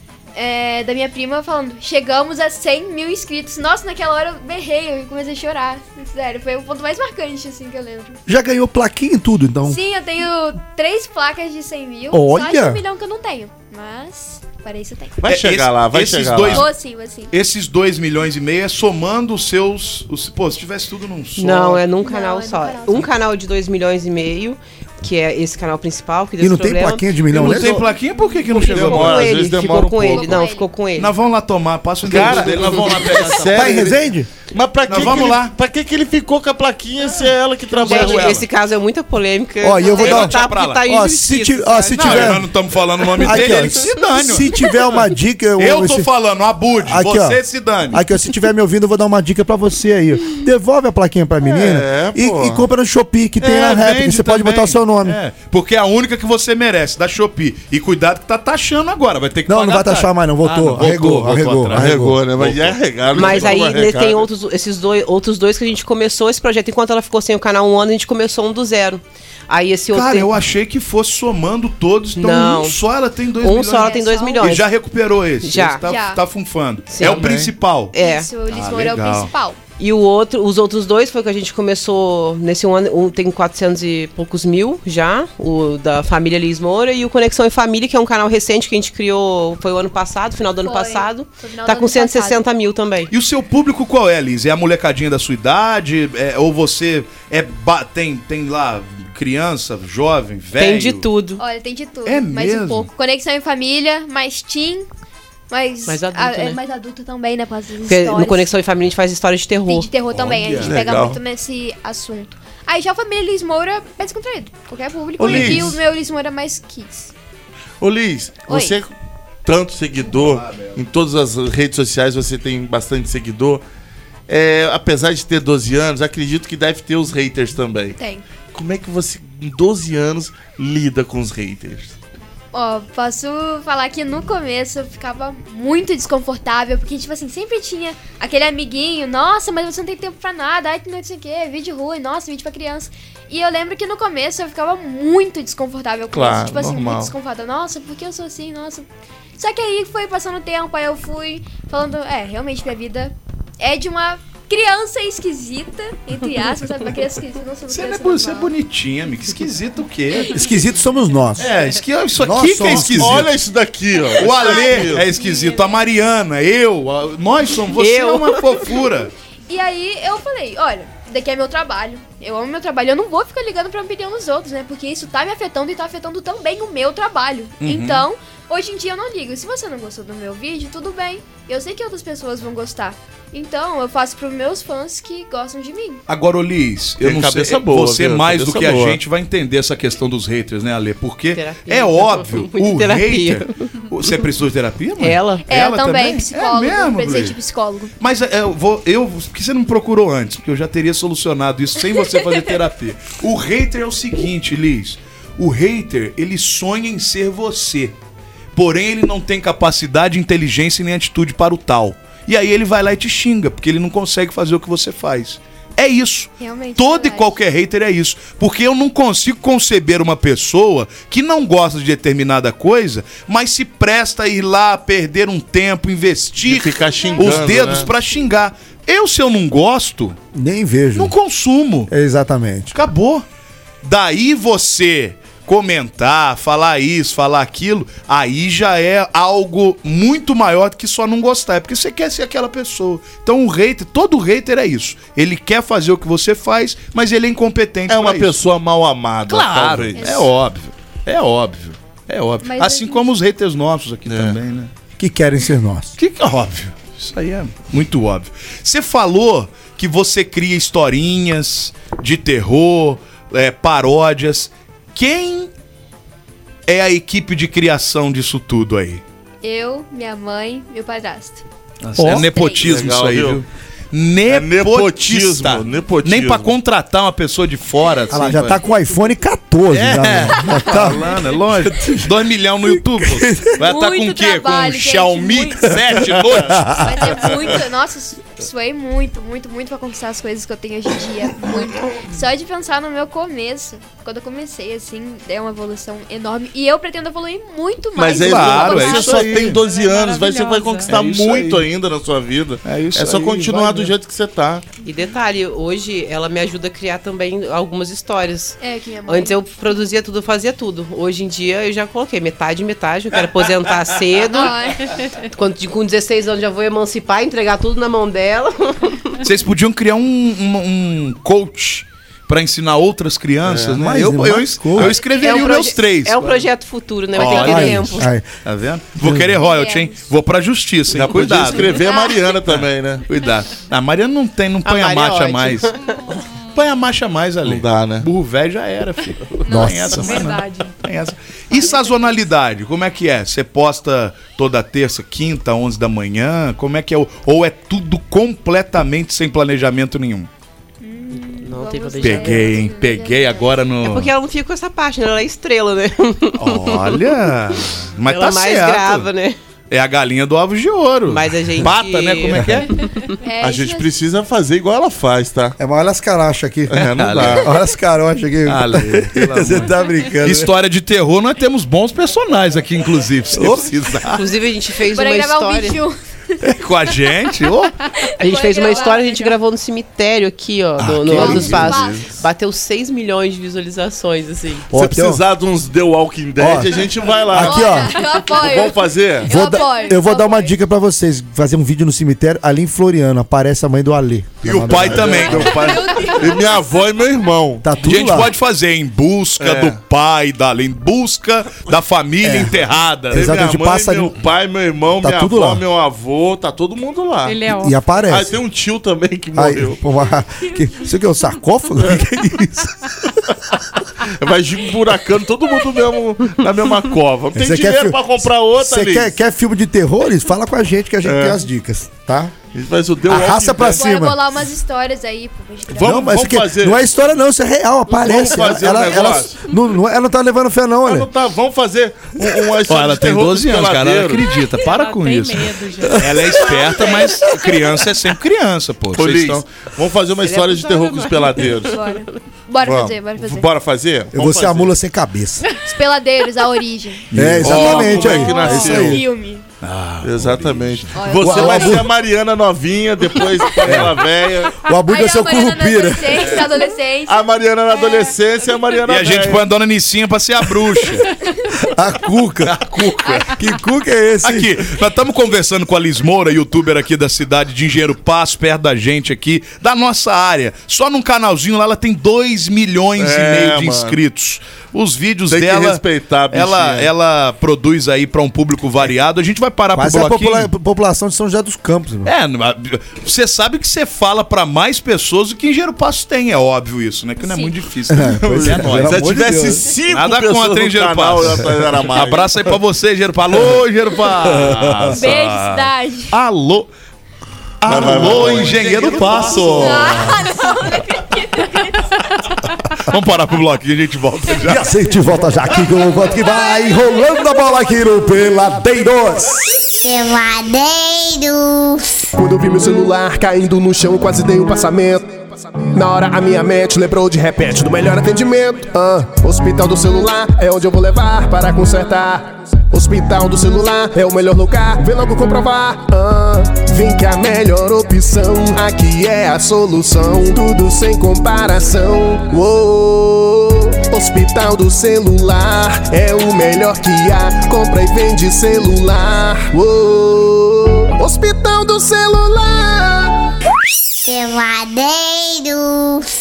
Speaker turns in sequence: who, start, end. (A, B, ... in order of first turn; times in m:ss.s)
0:00.3-0:08.2 A
0:08.3-0:09.8 B
0:09.6-0:15.2 A
0:12.1-0:12.8 B
0:15.2-0:16.7 C
0:15.2-0:16.7 D
0:16.5-0:17.3 A
0:17.3-0:21.8 D
0:21.4-0:27.2 E
0:22.0-0:23.0 A
0:26.4-0:27.8 B
0:27.3-0:29.3 D
0:27.3-0:27.8 C
0:28.4-0:30.5 C
0:28.7-0:31.1 E
0:30.1-0:30.6 A
0:31.0-0:33.8 D
0:32.0-0:38.4 C
0:33.4-0:34.3 B
0:34.9-0:35.6 D
0:37.7-0:38.5 D
0:37.8-0:42.4 E
0:39.6-0:42.5 B
0:39.9-0:40.9 D
0:41.9-0:44.7 D
0:43.2-0:46.1 B
0:45.6-0:48.0 D
0:46.8-0:55.2 B
0:51.4-0:52.6 C
0:53.4-1:03.5 D
0:59.5-1:02.2 B
1:01.7-1:04.3 C
1:03.1-1:10.3 E
1:09.9-1:18.0 D
1:12.2-1:12.8 E
1:13.4-1:14.7 E
1:13.8-1:14.5 A
1:15.4-1:15.8 E
1:15.8-1:16.2 A
1:16.9-1:18.3 E
1:17.0-1:17.5 C
1:18.0-1:19.6 A
1:18.5-1:19.3 D
1:19.8-1:33.1 E
1:30.6-1:32.4 A
1:33.1-1:41.1 D
1:40.6-1:41.4 E
1:41.4-1:44.8 A
1:42.0-1:42.9 D
1:45.5-1:48.4 A
1:45.8-1:46.6 E
1:47.8-1:49.9 E
1:49.6-1:57.1 A
1:50.1-1:50.8 D
1:50.6-1:51.2 C
1:55.2-1:55.8 C
1:55.2-1:55.8 D
1:57.8-1:58.9 C
1:58.5-1:58.8 A
1:59.4-2:03.6 C
2:00.2-2:00.7 D
2:04.3-2:08.0 C
2:08.0-2:08.2 A
2:08.5-2:11.9 C
2:12.5-2:28.8 A
2:26.1-2:27.1 C
2:29.4-2:38.5 A
2:37.7-2:40.3 D
2:40.3-2:41.5 B
2:41.4-2:43.3 D
2:42.2-2:43.3 B
2:42.6-2:45.1 C
2:44.2-2:49.1 D
2:44.4-2:45.8 A
2:47.8-2:48.7 E
2:49.5-3:06.0 A
2:57.6-2:58.0 D
3:06.1-3:17.4 D
3:07.0-3:09.0 C
3:11.3-3:13.5 E
3:15.0-3:15.4 E
3:15.4-3:17.9 A
3:18.0-3:28.0 D
3:28.5-3:50.2 D
3:36.4-3:37.4 A
3:46.4-3:47.9 C
3:47.0-3:47.3 A
3:50.3-3:51.1 B
3:51.0-3:51.9 D
3:51.9-3:52.7 B
3:52.7-3:53.2 D
3:53.8-4:08.3 D
4:07.9-4:10.0 C
4:09.3-4:14.7 D
4:10.0-4:10.3 A
4:12.4-4:13.0 A
4:14.1-4:14.4 C
4:15.0-4:16.0 B
4:16.0-4:25.5 D
4:26.7-4:29.0 D
4:29.4-4:31.4 A
4:31.8-4:38.6 D
4:32.0-4:32.2 B
4:32.1-4:32.6 A
4:32.2-4:33.4 C
4:34.3-4:36.5 C
4:38.1-4:41.1 B
4:39.7-4:47.2 D
4:43.0-4:43.6 B
4:43.6-4:45.8 A
4:46.5-4:46.8 B
4:46.7-4:59.3 A
4:58.0-5:04.6 C
4:58.2-4:59.6 D
4:59.6-5:00.9 F
5:00.9-5:01.7 D
5:02.6-5:03.9 D
5:04.8-5:14.6 E
5:08.6-5:09.4 A
5:14.3-5:14.8 A
5:15.3-5:19.2 E
5:19.2-5:26.5 D
5:23.4-5:23.8 C
5:23.7-5:25.0 B
5:25.1-5:28.1 E
5:27.1-5:31.8 D
5:27.3-5:28.2 B
5:29.0-5:29.4 B
5:29.4-5:30.0 A
5:30.9-5:33.0 C
5:31.6-5:32.3 A
5:32.4-5:35.7 D
5:34.6-5:35.9 E
5:36.5-5:50.3 D
5:37.4-5:38.1 C
5:39.4-5:39.8 A
5:39.5-5:40.0 B
5:39.9-5:40.7 F
5:41.6-5:41.9 A
5:50.8-5:53.5 A
5:51.3-5:52.6 E
5:52.0-5:54.1 D
5:53.8-5:57.0 E
5:56.3-5:59.1 D
5:58.0-5:59.4 E
5:59.7-6:02.7 D
6:01.1-6:03.2 E
6:03.2-6:03.9 A
6:03.4-6:05.6 C
6:05.6-6:10.5 B
6:06.7-6:07.5 C
6:06.8-6:07.5 D
6:08.4-6:14.2 D
6:13.4-6:14.0 C
6:14.1-6:15.8 E
6:14.9-6:15.9 A
6:16.4-6:17.7 D
6:18.0-6:19.3 A
6:18.2-6:24.7 E
6:20.8-6:21.6 D
6:21.0-6:22.2 C
6:21.1-6:21.6 B
6:21.2-6:22.0 A
6:24.7-6:29.3 C
6:24.7-6:25.2 B
6:26.4-6:26.7 B
6:27.3-6:28.0 B
6:27.3-6:30.5 A
6:29.3-6:35.5 B
6:34.4-6:35.6 D
6:34.6-6:37.6 C
6:35.6-6:36.6 A
6:37.6-6:38.3 B
6:37.8-6:43.3 D
6:39.4-6:39.8 C
6:42.2-6:44.2 B
6:43.1-6:47.4 C
6:45.0-6:45.6 B
6:47.2-6:47.8 F
6:47.5-6:48.3 B
6:48.1-6:49.8 C
6:49.3-6:53.0 B
6:54.0-6:59.1 C
6:57.3-7:02.3 B
7:01.0-7:01.4 C
7:02.5-7:03.9 C
7:03.0-7:04.2 B
7:03.7-7:05.9 A
7:05.7-7:06.9 C
7:05.8-7:11.1 B
7:05.9-7:06.2 D
7:07.9-7:09.4 C
7:10.8-7:14.3 C
7:12.7-7:19.4 D
7:14.5-7:16.5 F
7:18.9-7:21.8 C
7:20.2-7:22.1 E
7:21.7-7:23.5 A
7:22.6-7:24.7 C
7:24.1-7:25.4 B
7:25.5-7:29.4 A
7:27.1-7:28.0 D
7:27.1-7:29.0 B
7:27.4-7:29.0 C
7:29.6-7:31.6 D
7:30.0-7:34.5 C
7:30.9-7:31.8 A
7:31.2-7:31.8 B
7:34.6-7:36.4 B
7:34.8-7:37.2 A
7:37.1-7:39.4 C
7:38.8-7:41.1 D
7:41.6-7:42.6 B
7:42.4-7:43.4 D
7:43.3-7:44.6 B
7:44.2-8:00.5 D
7:53.0-7:54.0 C
7:55.3-7:56.9 C
7:59.7-8:02.1 B
8:02.0-8:09.2 D
8:07.2-8:07.5 A
8:07.9-8:09.7 B
8:08.4-8:12.3 C
8:09.9-8:16.7 D
8:14.3-8:14.9 B
8:14.9-8:16.1 A
8:17.6-8:20.0 D
8:17.6-8:20.2 C
8:19.6-8:22.0 A
8:22.9-8:24.7 D
8:24.4-8:29.4 B
8:26.4-8:26.8 A
8:29.8-8:32.0 G
8:32.2-9:03.2 H
9:04.0-9:06.1 G